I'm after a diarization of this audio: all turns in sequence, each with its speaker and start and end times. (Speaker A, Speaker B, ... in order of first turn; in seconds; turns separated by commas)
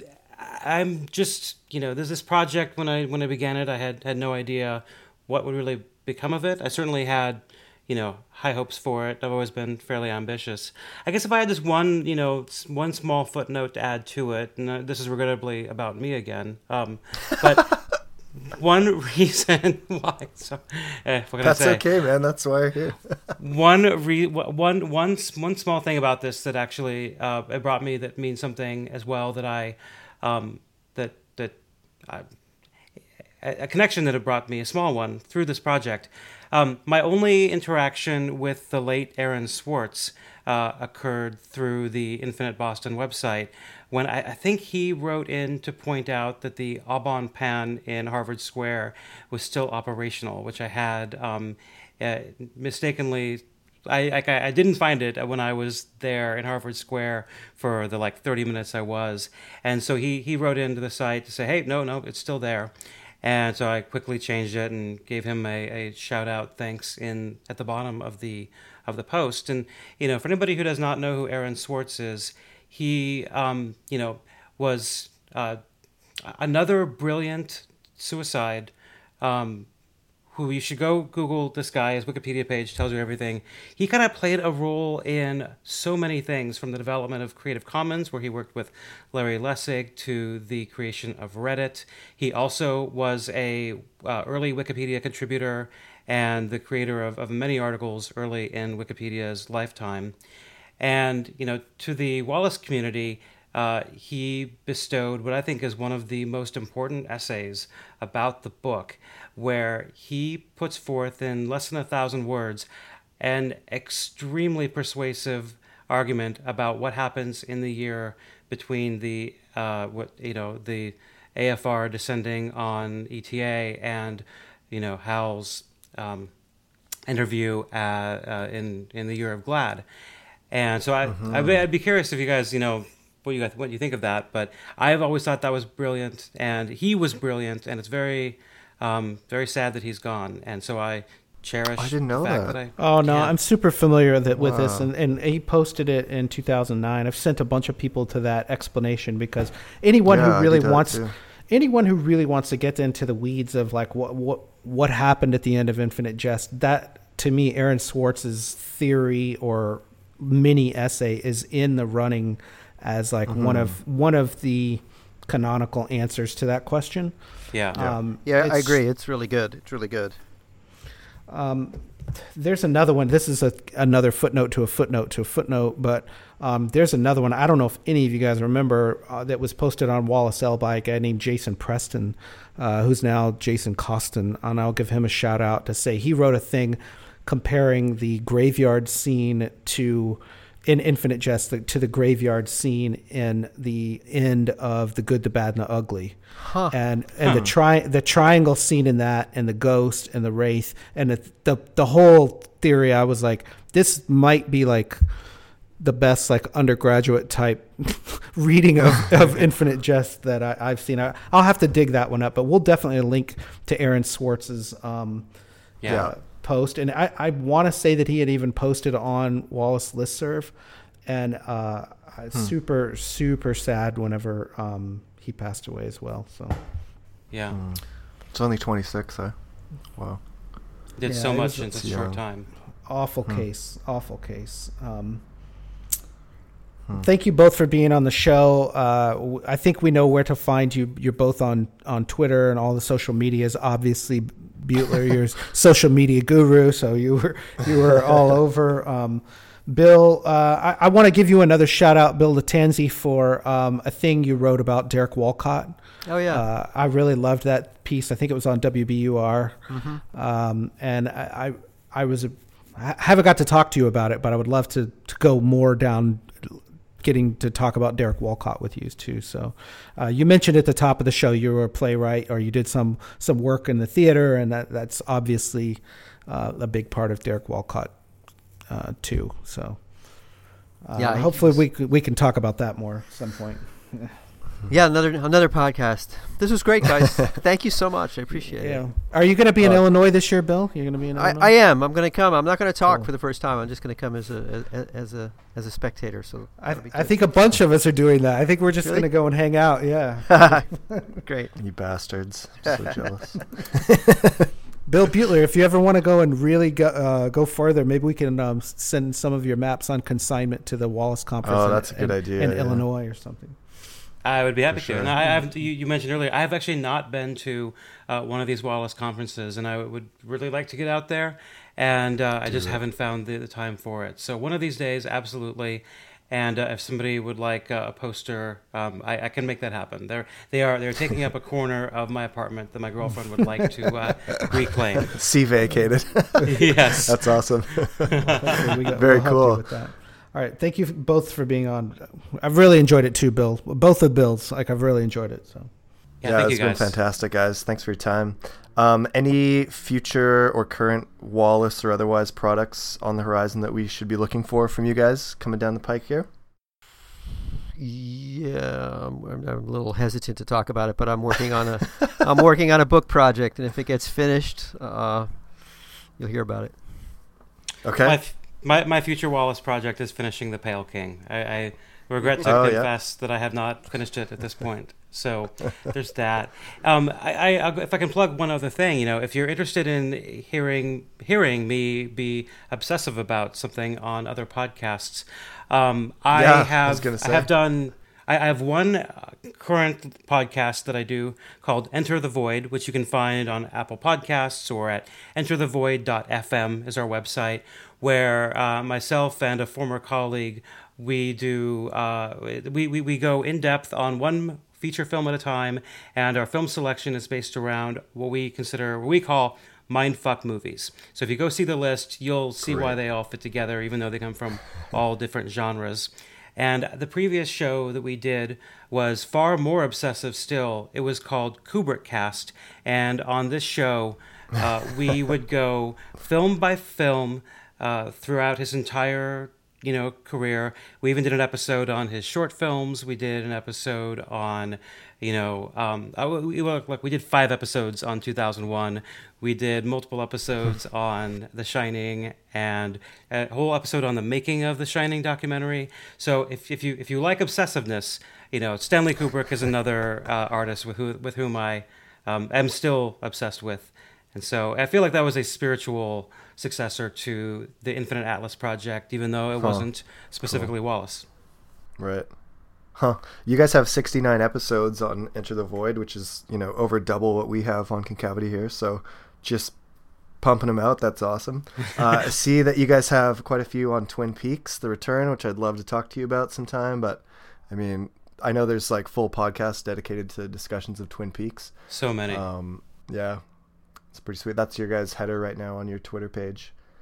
Speaker A: 0.3-21.8, Speaker B: 21.4-23.3, Speaker A: 23.4-32.2, Speaker A: 33.4-62.7, Speaker A: 63.2-75.6, Speaker A: 76.2-79.7, Speaker A: 80.3-100.1, Speaker A: 100.8-112.7, Speaker A: 113.2-126.3, Speaker A: 127.1-129.8, Speaker A: 130.5-143.3, Speaker B: 131.1-131.6, Speaker B: 141.8-142.6, Speaker C: 142.8-167.2, Speaker B: 144.3-144.9, Speaker B: 150.1-151.1, Speaker B: 163.3-163.8, Speaker A: 167.5-167.8, Speaker C: 167.7-168.8, Speaker D: 168.2-170.2, Speaker C: 171.3-196.2, Speaker D: 196.4-196.7, Speaker C: 196.7-205.0, Speaker C: 205.8-215.3, Speaker A: 215.8-216.1, Speaker B: 215.9-216.2, Speaker C: 215.9-220.5, Speaker C: 221.1-226.6, Speaker A: 227.3-227.6, Speaker B: 227.5-229.3, Speaker B: 229.9-230.2, Speaker A: 231.0-232.5, Speaker C: 231.1-231.9, Speaker B: 231.8-232.2, Speaker C: 232.9-235.2, Speaker C: 237.0-277.9, Speaker D: 256.1-256.4, Speaker D: 259.7-260.0, Speaker C: 278.7-279.8, Speaker C: 280.9-284.1, Speaker D: 281.0-281.6, Speaker D: 284.7-288.9, Speaker C: 288.3-291.5, Speaker D: 291.2-297.2, Speaker C: 296.6-301.2, Speaker D: 300.3-300.7, Speaker D: 301.2-301.5, Speaker B: 301.6-304.5, Speaker C: 304.9-313.6, Speaker B: 311.4-312.8, Speaker A: 314.2-335.2, Speaker B: 314.7-315.2, Speaker B: 322.5-322.8, Speaker B: 334.4-339.6, Speaker A: 336.4-337.5, Speaker A: 338.0-338.7, Speaker C: 338.4-345.7, Speaker A: 346.2-347.0, Speaker B: 346.2-356.3, Speaker D: 357.8-366.8, Speaker B: 367.8-368.2, Speaker A: 368.0-461.3, Speaker B: 372.4-372.9, Speaker B: 386.3-387.5, Speaker B: 412.6-413.0, Speaker B: 459.6-459.9, Speaker B: 460.5-460.7, Speaker B: 462.0-462.3, Speaker B: 463.0-469.8, Speaker B: 470.4-481.7, Speaker A: 481.9-482.4, Speaker B: 482.3-483.4, Speaker B: 484.1-486.7